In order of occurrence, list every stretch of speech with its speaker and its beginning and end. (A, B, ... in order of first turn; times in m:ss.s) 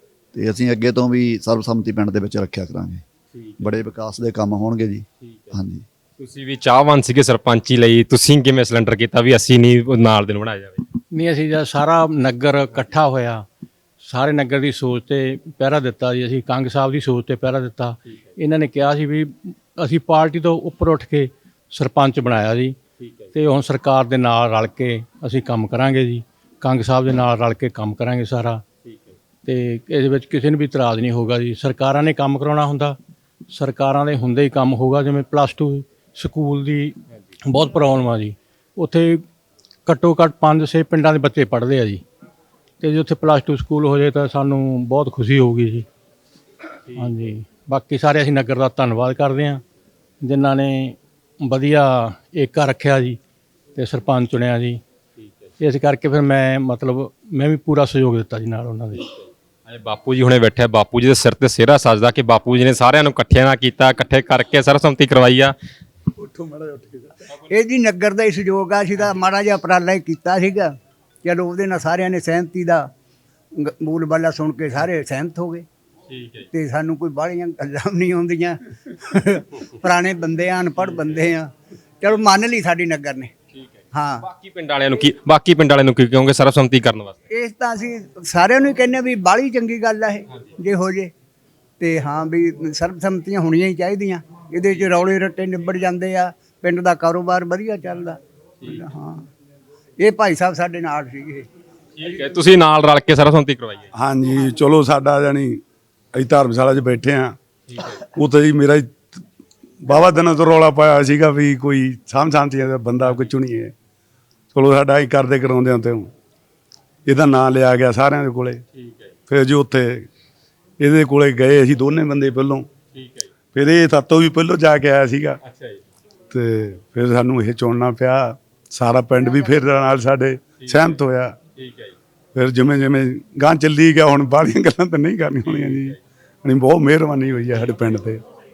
0:00.3-0:03.0 A
0:03.4-0:03.8 B
0:03.6-0:05.8 A
0:05.2-0:05.6 B
0:06.2-0:10.8 B
0:11.1-0:13.4 C
0:14.0-0:22.8 C
0:23.0-0:23.3 B
0:23.3-0:28.6 C
0:28.8-0:29.1 B
0:29.4-0:33.0 C
0:33.5-0:39.2 C
0:39.9-0:42.0 C
0:42.8-0:45.9 C
0:46.9-0:47.1 B
0:46.9-0:49.6 C
0:50.2-0:53.2 C
0:53.8-0:54.8 C
0:55.6-0:59.1 C
0:59.7-1:05.6 B
1:06.2-1:12.9 D
1:13.5-1:15.7 D
1:16.1-1:16.4 B
1:16.5-1:23.3 D
1:23.6-1:27.1 B
1:23.9-1:24.3 D
1:27.3-1:31.1 D
1:31.8-1:39.2 D
1:40.0-1:41.5 D
1:42.0-1:43.9 B
1:43.9-1:45.6 E
1:46.1-1:47.3 E
1:47.7-1:48.0 B
1:48.1-1:49.0 E
1:49.8-1:53.7 E
1:54.5-1:56.1 E
1:57.1-1:58.6 E
1:58.7-1:59.1 B
1:59.3-2:00.1 E
2:00.8-2:02.7 E
2:02.9-2:03.3 B
2:03.5-2:05.4 E
2:05.4-2:05.8 B
2:06.3-2:11.4 E
2:10.6-2:11.0 B
2:11.6-2:12.0 B
2:12.4-2:18.2 E
2:15.4-2:16.0 B